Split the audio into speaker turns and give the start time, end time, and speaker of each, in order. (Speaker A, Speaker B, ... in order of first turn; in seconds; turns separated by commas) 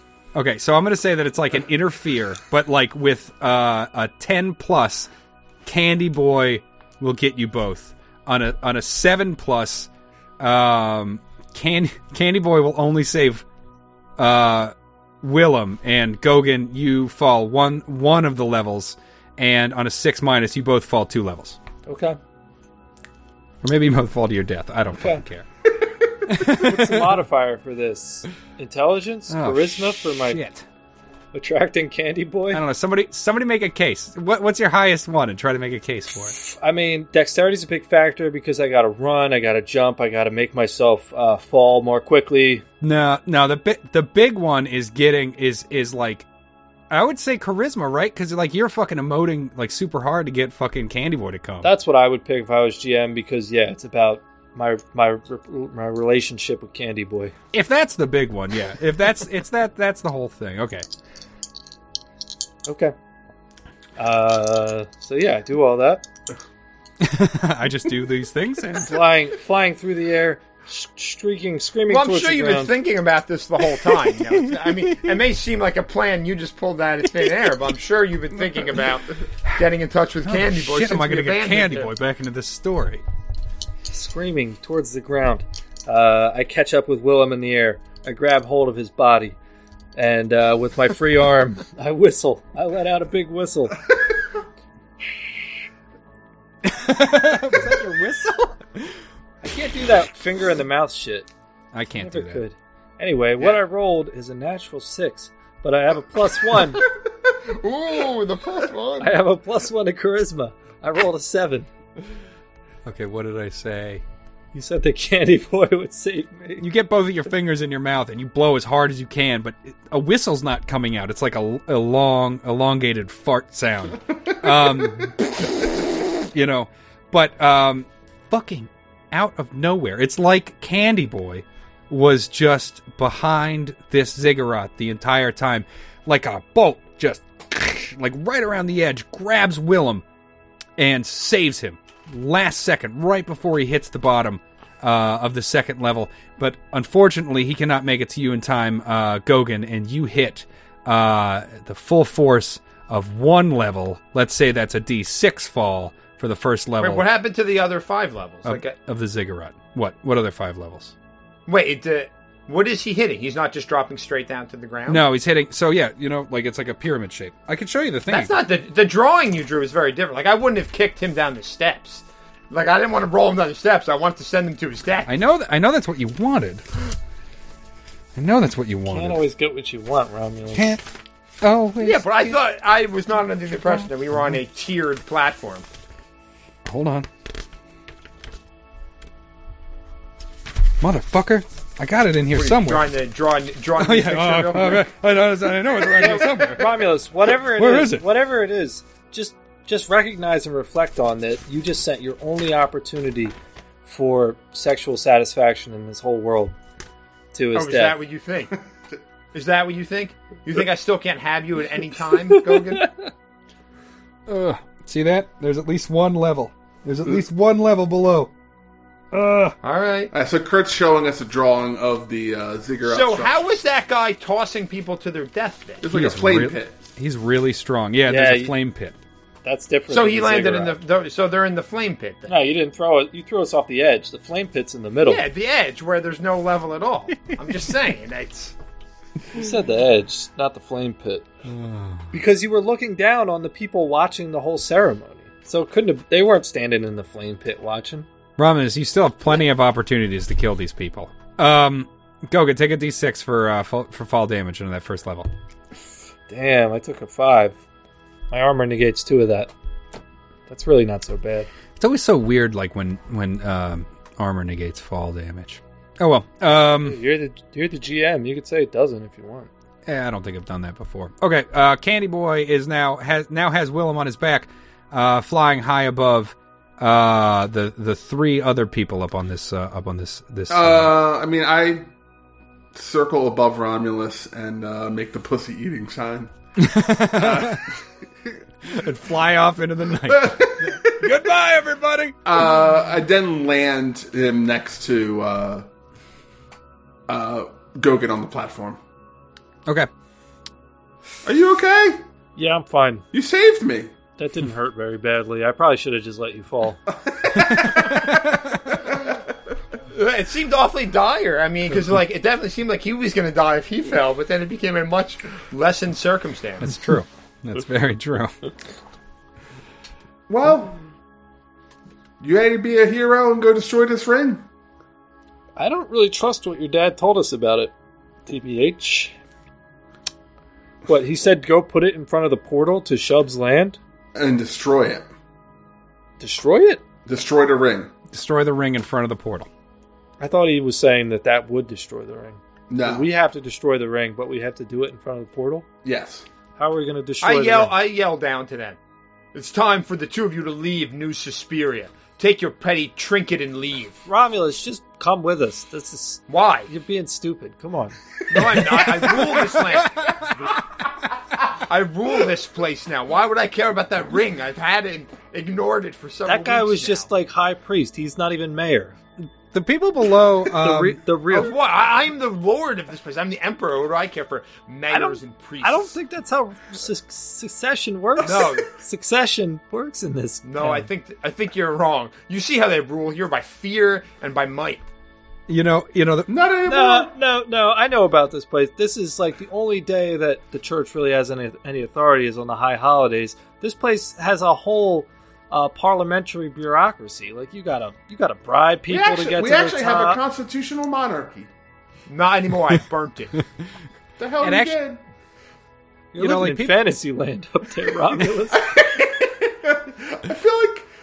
Speaker A: 0.3-5.1, Speaker A: 5.7-13.4, Speaker A: 14.2-21.6, Speaker B: 21.9-22.2, Speaker A: 23.6-25.5, Speaker A: 26.2-27.2, Speaker B: 26.4-30.4, Speaker A: 29.3-30.6, Speaker B: 31.3-32.6, Speaker A: 32.5-36.4, Speaker B: 36.4-42.6, Speaker A: 42.8-46.3, Speaker A: 46.9-51.7, Speaker B: 51.6-57.3, Speaker A: 57.5-60.9, Speaker B: 62.7-62.9, Speaker B: 64.0-66.0, Speaker A: 67.0-68.9, Speaker B: 68.8-72.8, Speaker C: 71.9-81.9, Speaker A: 80.2-83.0, Speaker B: 83.9-89.4, Speaker B: 90.0-93.8, Speaker A: 96.6-98.6, Speaker B: 99.4-101.3, Speaker A: 101.7-102.4, Speaker B: 102.0-106.9, Speaker C: 107.4-109.1, Speaker B: 109.0-111.7, Speaker A: 112.9-114.0, Speaker B: 114.5-116.7, Speaker A: 116.6-125.2, Speaker A: 126.3-140.0, Speaker A: 140.8-157.1, Speaker C: 156.8-158.8, Speaker A: 158.4-160.9, Speaker C: 161.5-165.0, Speaker A: 164.9-168.3, Speaker C: 168.1-175.1, Speaker A: 175.1-176.7, Speaker A: 178.2-179.2, Speaker B: 178.9-180.8, Speaker A: 180.5-180.8, Speaker A: 181.4-182.4, Speaker C: 181.8-185.7, Speaker A: 183.7-184.4, Speaker A: 186.7-187.1, Speaker A: 190.8-192.9, Speaker C: 192.3-194.9, Speaker A: 193.8-196.7, Speaker B: 195.9-206.6, Speaker A: 197.5-198.0, Speaker B: 207.3-208.0, Speaker C: 207.5-208.5, Speaker C: 209.3-212.9, Speaker B: 212.3-213.1, Speaker A: 214.3-218.3, Speaker A: 219.1-219.6, Speaker C: 219.6-220.1, Speaker D: 220.1-223.4, Speaker C: 222.8-225.8, Speaker D: 225.8-226.7, Speaker A: 225.9-229.0, Speaker B: 228.1-228.6, Speaker B: 229.4-230.8, Speaker C: 229.9-232.3, Speaker B: 232.3-235.3, Speaker C: 235.0-238.5, Speaker B: 239.3-241.3, Speaker A: 241.5-242.1, Speaker B: 242.1-248.1, Speaker A: 248.4-255.3, Speaker B: 256.3-257.6, Speaker B: 258.3-259.5, Speaker B: 260.5-261.5, Speaker A: 261.8-267.0, Speaker B: 266.8-269.5, Speaker A: 269.9-280.9, Speaker D: 280.5-281.9, Speaker D: 282.7-286.3, Speaker A: 286.6-287.6, Speaker D: 287.1-288.3, Speaker A: 288.7-292.2, Speaker D: 290.1-291.1, Speaker D: 292.2-295.7, Speaker D: 297.1-298.8, Speaker D: 301.2-302.0, Speaker B: 302.4-303.1, Speaker D: 303.1-303.9, Speaker B: 304.2-306.8, Speaker D: 307.0-308.2, Speaker A: 307.3-308.8, Speaker D: 308.9-309.2, Speaker C: 309.9-316.8, Speaker A: 316.6-318.4, Speaker D: 320.3-320.8, Speaker D: 322.2-324.4, Speaker B: 325.6-327.7, Speaker B: 328.3-329.1, Speaker B: 330.9-333.8, Speaker D: 334.1-335.1, Speaker B: 336.2-336.8, Speaker D: 337.1-337.9, Speaker A: 338.1-339.5, Speaker B: 340.2-345.7, Speaker D: 342.7-343.1, Speaker D: 345.8-346.2, Speaker B: 346.6-347.8, Speaker C: 347.2-348.8, Speaker C: 349.3-354.0, Speaker B: 354.1-359.0, Speaker C: 356.3-356.7, Speaker C: 358.3-360.5, Speaker A: 359.8-360.5, Speaker C: 361.5-367.1, Speaker B: 366.2-369.0, Speaker A: 369.2-371.0, Speaker B: 370.5-371.6, Speaker C: 371.3-375.9, Speaker B: 374.9-380.9, Speaker C: 378.2-378.7, Speaker C: 380.4-384.8, Speaker A: 385.5-386.3, Speaker D: 386.3-387.1, Speaker B: 386.7-400.2, Speaker D: 398.9-401.5, Speaker C: 402.1-403.4, Speaker D: 404.2-405.0, Speaker A: 404.4-404.8, Speaker B: 406.1-408.6, Speaker A: 406.2-406.8, Speaker D: 408.5-410.9